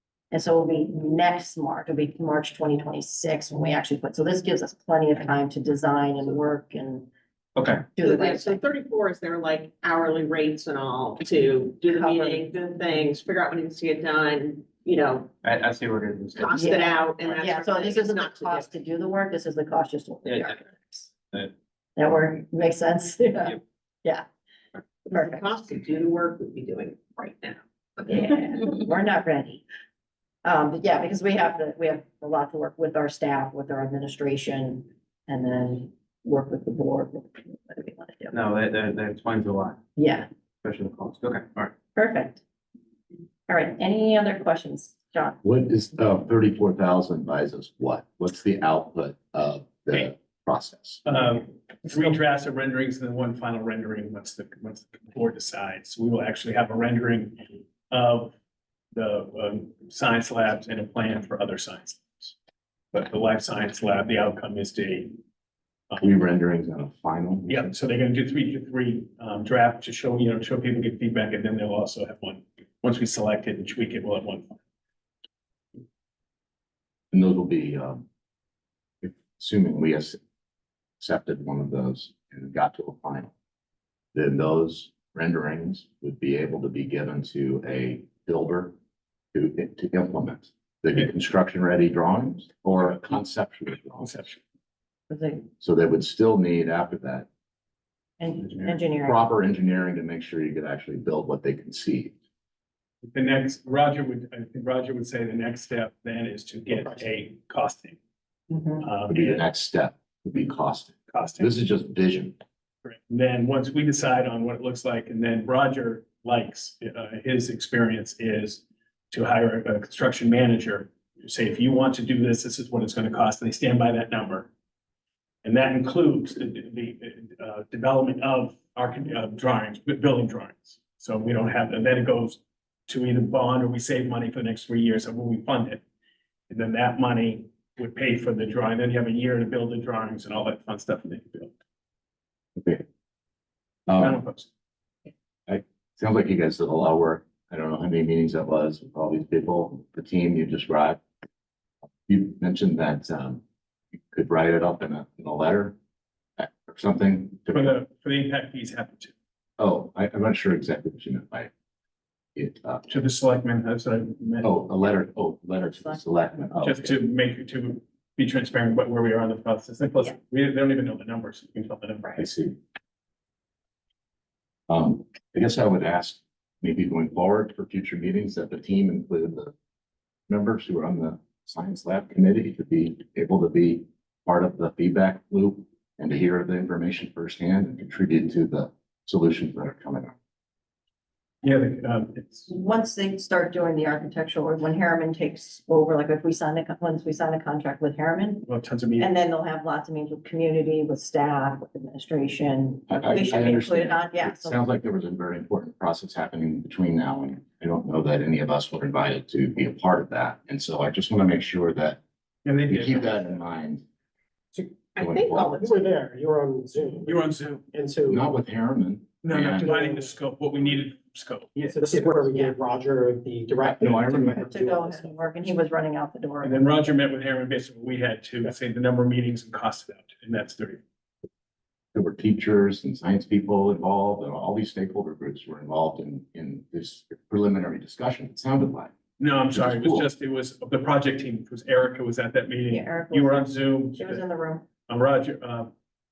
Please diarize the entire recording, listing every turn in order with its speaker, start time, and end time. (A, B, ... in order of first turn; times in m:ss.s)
0:00.3-0:07.1 A
0:07.6-0:07.9 B
0:08.0-0:08.6 A
0:08.0-0:15.3 C
0:11.9-0:12.5 A
0:15.4-0:16.5 B
0:16.4-0:18.7 C
0:16.5-0:21.1 A
0:20.3-0:20.6 B
0:22.0-0:24.3 A
0:25.1-0:28.2 C
0:25.1-0:25.6 A
0:28.1-0:29.6 A
0:30.4-0:38.3 A
0:38.3-0:39.8 B
0:40.0-0:40.3 A
0:40.6-0:41.7 B
0:42.0-0:42.4 A
0:43.5-0:45.4 A
0:45.4-0:51.2 D
0:51.0-0:58.3 E
0:58.9-1:02.3 E
1:02.9-1:05.2 E
1:06.0-1:07.7 D
1:07.5-1:14.6 E
1:17.1-1:18.1 D
1:19.0-1:20.2 D
1:21.0-1:23.3 D
1:24.1-1:28.8 D
1:29.3-1:34.3 D
1:34.0-1:34.4 E
1:35.1-1:35.5 A
1:35.6-1:37.3 D
1:38.2-1:39.3 A
1:39.0-1:42.2 D
1:43.0-1:48.0 E
1:48.5-1:48.8 A
1:48.8-1:49.4 E
1:49.1-1:52.4 D
1:51.1-1:51.5 E
1:52.8-2:04.5 E
2:05.4-2:15.8 E
2:16.5-2:21.5 E
2:22.6-2:22.8 D
2:23.9-2:24.2 D
2:24.0-2:24.5 E
2:25.5-2:31.0 D
2:32.1-2:33.4 D
2:34.0-2:35.8 D
2:36.4-2:37.8 D
2:37.5-2:39.1 E
2:39.6-2:41.5 D
2:42.4-2:42.9 D
2:42.9-2:44.5 E
2:44.4-2:47.0 D
2:45.7-2:46.7 A
2:46.6-2:52.3 E
2:52.2-2:52.6 D
2:54.7-2:59.5 D
3:00.3-3:10.2 D
3:11.4-3:12.5 E
3:12.5-3:18.5 A
3:18.5-3:19.1 E
3:19.0-3:24.6 A
3:22.9-3:32.0 D
3:32.4-3:33.4 E
3:32.7-3:33.8 D
3:34.9-3:35.9 C
3:35.0-3:35.6 D
3:35.6-3:38.3 F
3:37.0-3:37.7 E
3:38.1-3:39.8 D
3:39.2-3:41.8 E
3:39.6-3:40.1 F
3:41.6-3:45.1 F
3:42.3-3:42.5 A
3:43.7-3:44.5 D
3:44.4-3:46.9 A
3:46.4-3:50.8 E
3:51.9-3:58.9 D
3:59.2-4:04.2 E
3:59.5-4:00.1 D
4:02.7-4:04.7 A
4:04.9-4:05.7 E